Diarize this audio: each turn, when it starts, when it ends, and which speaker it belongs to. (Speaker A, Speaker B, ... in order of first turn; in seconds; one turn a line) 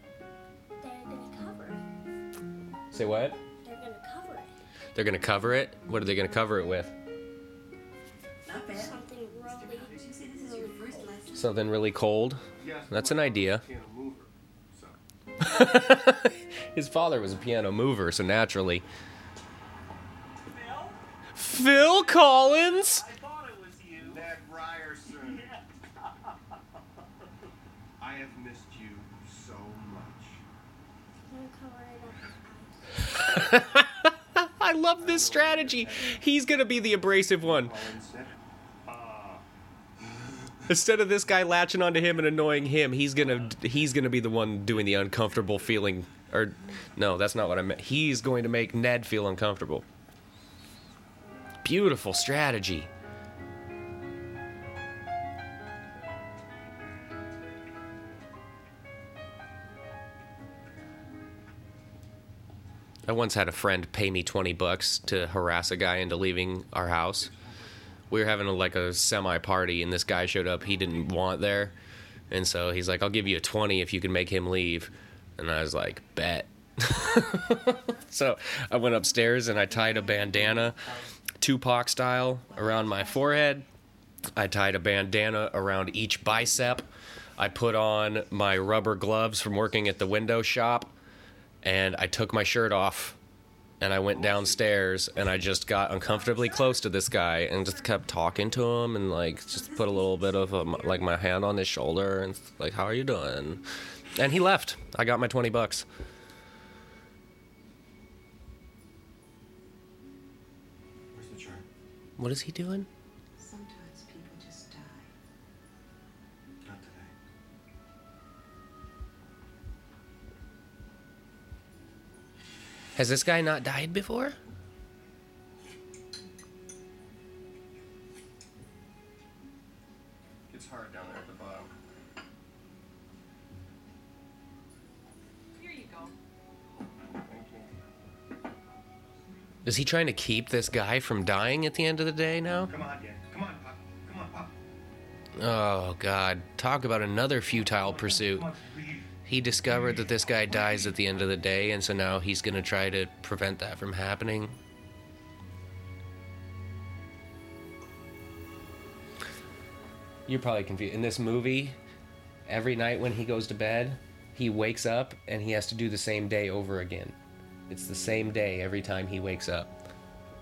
Speaker A: 0.8-1.8
Speaker B: 2.9-3.4
Speaker A: 3.6-4.5
Speaker B: 4.9-6.9
Speaker C: 8.4-11.5
Speaker A: 8.5-11.1
Speaker B: 11.3-13.6
Speaker D: 12.6-15.0
Speaker B: 15.4-18.8
Speaker E: 20.4-21.0
Speaker B: 21.4-23.0
Speaker E: 21.8-24.2
Speaker D: 24.0-25.5
Speaker E: 25.1-25.6
Speaker D: 28.0-30.4
Speaker A: 31.3-33.3
Speaker B: 33.1-37.8
Speaker D: 35.0-36.3
Speaker D: 37.2-38.3
Speaker E: 38.9-39.4
Speaker D: 40.0-40.6
Speaker B: 40.7-49.8
Speaker E: 44.9-45.6
Speaker B: 51.6-52.9
Speaker B: 63.0-67.3
Speaker D: 67.2-67.8
Speaker B: 68.1-71.7
Speaker B: 72.3-83.6
Speaker C: 79.7-80.2
Speaker D: 80.6-81.0
Speaker C: 82.5-83.6
Speaker B: 84.3-90.9
Speaker B: 91.6-93.2
Speaker B: 93.8-103.6
Speaker D: 94.0-94.8
Speaker C: 96.1-96.8
Speaker C: 99.5-101.1
Speaker B: 104.1-105.8
Speaker D: 111.1-111.6
Speaker B: 112.2-112.9
Speaker C: 113.4-115.1
Speaker D: 116.6-117.1
Speaker B: 123.0-124.3
Speaker D: 130.5-131.7
Speaker C: 135.5-136.1
Speaker D: 137.1-137.7
Speaker B: 139.6-142.7
Speaker D: 142.7-144.5
Speaker B: 145.4-148.5
Speaker D: 148.5-149.0
Speaker B: 149.2-154.6
Speaker B: 160.3-161.8
Speaker B: 162.4-167.2
Speaker B: 167.7-169.7